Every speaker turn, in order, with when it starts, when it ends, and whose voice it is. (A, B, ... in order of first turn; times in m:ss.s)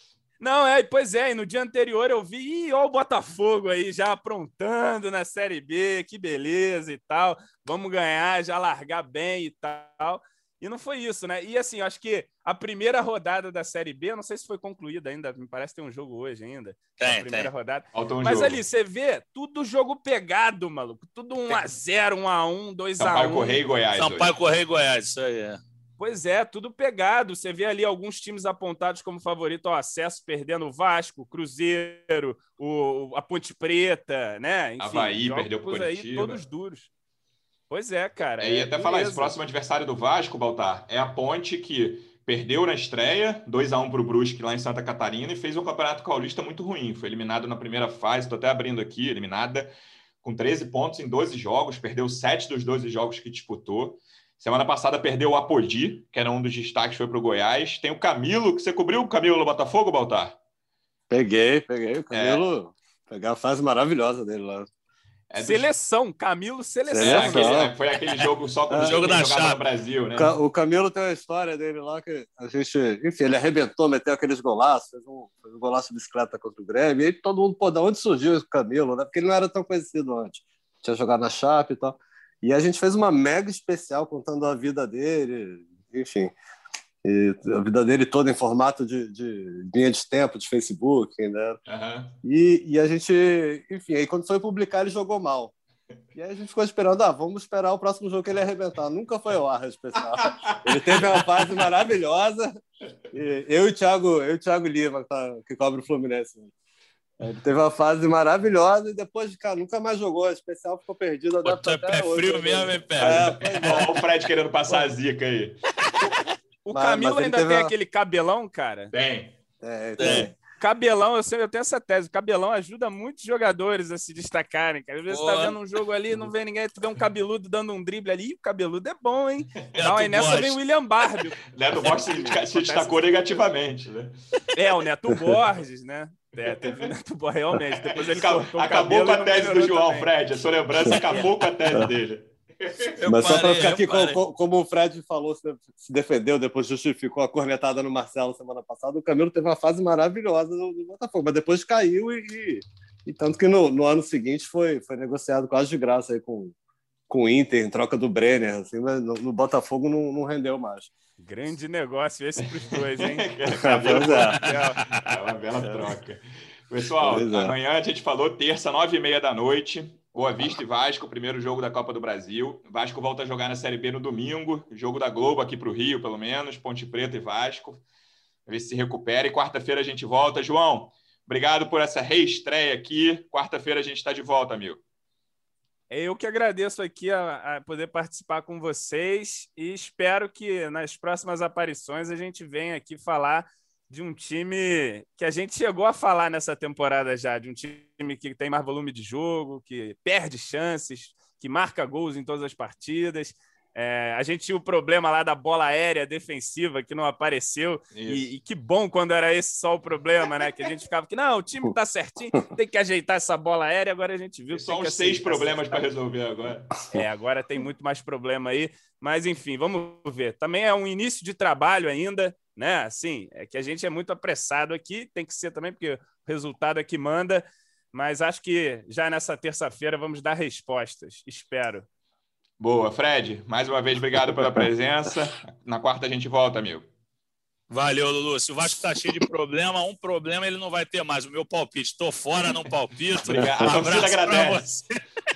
0:00.4-0:23.6 A
0:17.0-0:17.5 B
0:17.9-0:18.6 C
0:23.0-0:24.3 C
0:23.9-0:25.6 B
0:26.0-0:36.9 A
0:34.8-0:36.4 C
0:37.7-0:39.4 A
0:38.4-1:00.4 C
1:01.1-1:04.7 D
1:02.1-1:02.4 C
1:05.3-1:05.7 C
1:05.4-1:07.6 A
1:06.9-1:07.7 D
1:07.0-1:10.3 C
1:08.7-1:09.0 D
1:08.8-1:09.6 B
1:10.2-1:26.3 D
1:27.0-1:31.6 D
1:31.7-1:32.1 C
1:32.2-1:35.5 D
1:36.2-1:42.5 D
1:40.2-1:41.6 C
1:43.1-1:46.5 D
1:47.2-1:54.0 D
1:51.4-1:53.9 B
1:53.1-1:55.6 C
1:56.6-1:58.9 A
1:56.7-1:57.7 D
1:58.9-1:59.4 C
1:59.6-2:00.4 D
2:00.0-2:00.3 B
2:00.6-2:13.1 A
2:05.1-2:05.6 B
2:09.8-2:10.6 B
2:11.5-2:14.1 C
2:14.5-2:20.1 A
2:17.9-2:22.9 C
2:23.0-2:24.2 B
2:23.0-2:36.5 D
2:37.1-2:40.9 D
2:41.2-2:43.3 A
2:43.0-2:57.8 C
2:43.5-2:44.4 D
2:43.9-2:44.8 A
2:45.6-2:45.9 D
2:47.0-2:47.6 D
2:58.5-3:04.8 C
3:05.9-3:35.8 A
3:27.9-3:28.2 C
3:34.5-3:36.8 C
3:36.9-3:51.9 A
3:52.6-3:56.9 C
3:57.7-4:04.9 B
4:03.2-4:04.6 C
4:03.4-4:03.8 D